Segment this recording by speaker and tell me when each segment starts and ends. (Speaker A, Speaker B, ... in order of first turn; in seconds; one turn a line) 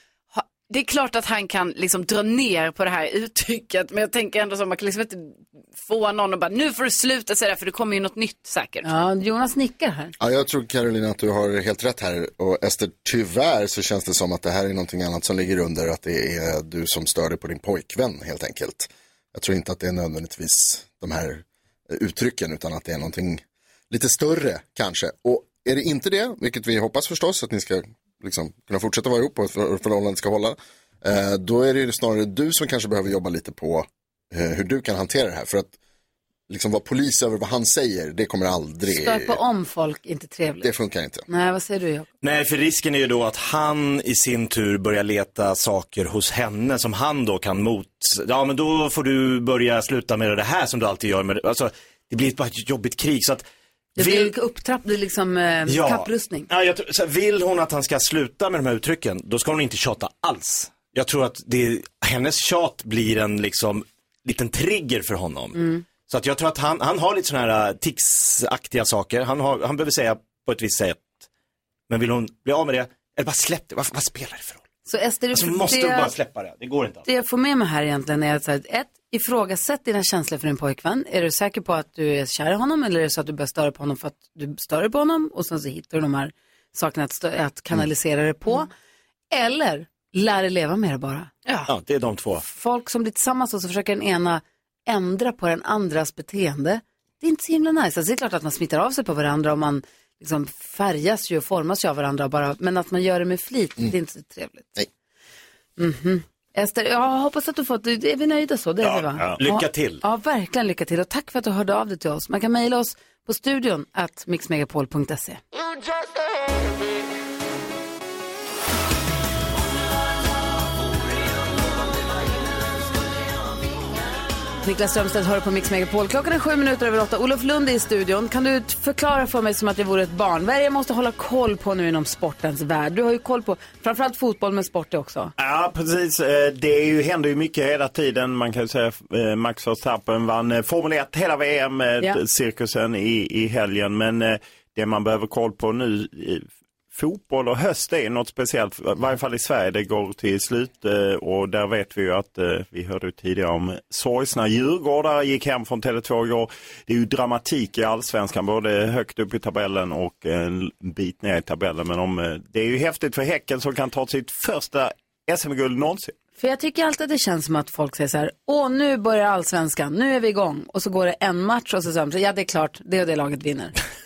Speaker A: 0.3-8.9
Speaker B: 8.8-10.1
Speaker C: 10.2-35.7
Speaker C: 36.5-39.4
Speaker B: 38.9-40.7
Speaker C: 40.6-41.2
Speaker B: 41.3-42.1
Speaker D: 42.2-53.4
Speaker B: 54.0-56.5
Speaker D: 54.0-54.3
Speaker D: 55.7-71.2
Speaker B: 65.5-65.8
Speaker D: 71.9-74.6
Speaker B: 74.8-76.1
Speaker D: 75.3-77.0
Speaker B: 77.0-88.7
Speaker B: 89.3-91.3
Speaker A: 91.5-91.7
Speaker D: 91.7-92.4
Speaker B: 92.4-104.8
Speaker B: 105.8-115.4
Speaker D: 108.8-110.0
Speaker B: 124.6-135.3
Speaker E: 135.4-166.1
Speaker B: 166.4-173.7